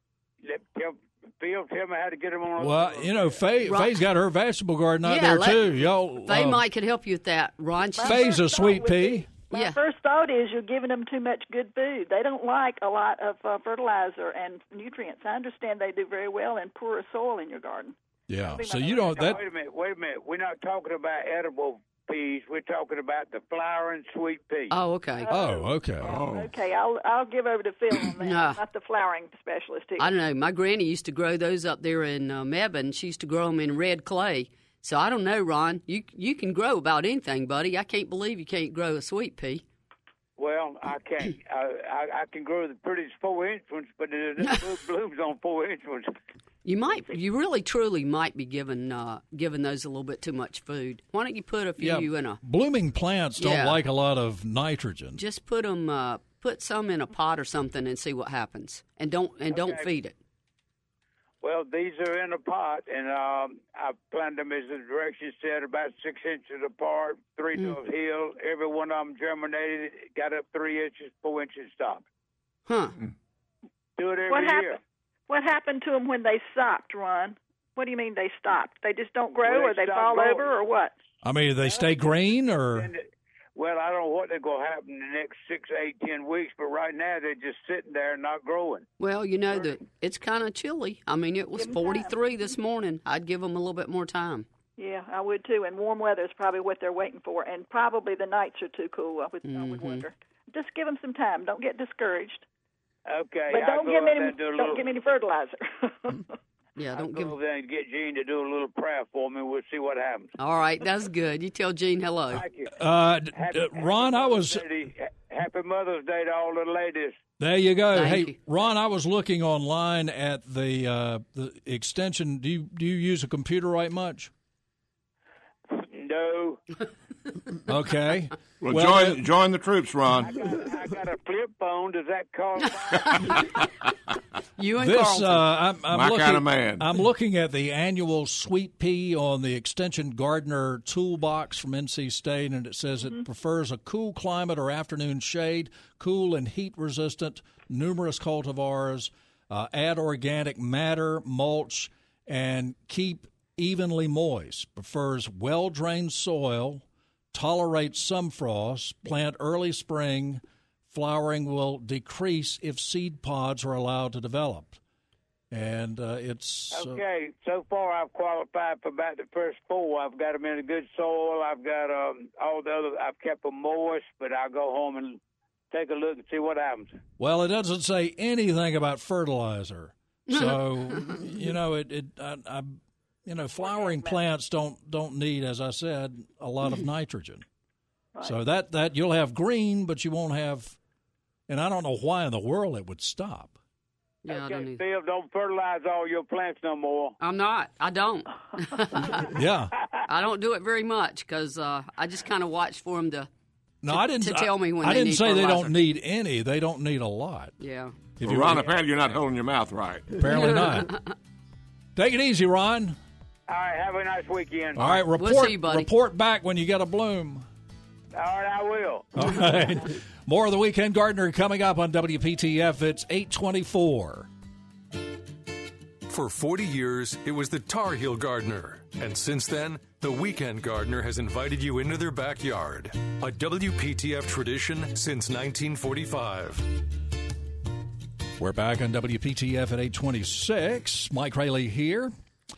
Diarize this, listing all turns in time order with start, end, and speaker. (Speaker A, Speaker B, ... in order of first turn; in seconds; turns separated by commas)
Speaker A: 0.4-3.4, Speaker B: 2.6-6.6, Speaker C: 3.6-4.0, Speaker C: 5.0-5.6, Speaker C: 6.2-8.4, Speaker D: 8.0-19.4, Speaker B: 8.0-9.3, Speaker C: 9.5-9.8, Speaker B: 18.3-19.4, Speaker A: 19.2-24.7, Speaker C: 24.7-25.3, Speaker D: 25.2-30.1, Speaker B: 25.3-26.2, Speaker E: 26.0-26.5, Speaker C: 28.2-28.6, Speaker C: 30.0-39.6, Speaker A: 40.4-46.1, Speaker C: 46.6-52.4, Speaker B: 51.8-55.2, Speaker C: 53.4-53.8, Speaker C: 55.2-60.2, Speaker A: 59.5-59.9, Speaker A: 61.4-72.0, Speaker C: 72.7-73.0, Speaker A: 74.0-74.8, Speaker D: 74.3-80.9, Speaker A: 79.4-80.5, Speaker B: 81.2-82.9, Speaker A: 82.7-83.0, Speaker A: 83.6-88.9, Speaker C: 89.0-94.5, Speaker D: 91.6-92.1, Speaker D: 94.8-102.4, Speaker C: 99.5-100.1, Speaker A: 103.1-104.9, Speaker D: 103.5-106.3, Speaker C: 106.8-107.3, Speaker A: 107.0-110.3, Speaker C: 110.4-112.5, Speaker A: 112.3-112.7, Speaker B: 112.7-114.6, Speaker A: 113.3-117.2, Speaker B: 117.4-124.3, Speaker C: 117.9-118.4, Speaker A: 125.7-126.6, Speaker B: 127.7-129.2, Speaker E: 128.6-130.4, Speaker A: 130.2-133.6, Speaker C: 134.6-135.5, Speaker B: 134.8-164.8, Speaker E: 135.9-136.9, Speaker B: 165.5-167.0, Speaker A: 166.7-175.2, Speaker A: 175.7-176.9, Speaker B: 177.2-187.4, Speaker C: 180.3-181.2, Speaker D: 183.8-184.1, Speaker B: 188.2-190.8, Speaker B: 191.5-193.6, Speaker C: 194.2-194.8, Speaker A: 194.3-197.2, Speaker C: 197.2-199.3, Speaker B: 199.3-199.8, Speaker C: 200.1-203.3, Speaker B: 203.8-207.6, Speaker C: 203.9-205.8, Speaker C: 207.6-208.0, Speaker B: 208.2-208.7, Speaker E: 208.2-210.2, Speaker B: 210.1-211.0, Speaker C: 210.3-211.0, Speaker B: 211.9-213.0, Speaker A: 213.5-214.9, Speaker B: 214.8-217.5, Speaker C: 215.2-215.9, Speaker A: 218.1-219.2, Speaker B: 219.2-224.3, Speaker F: 226.1-236.7, Speaker B: 238.4-242.1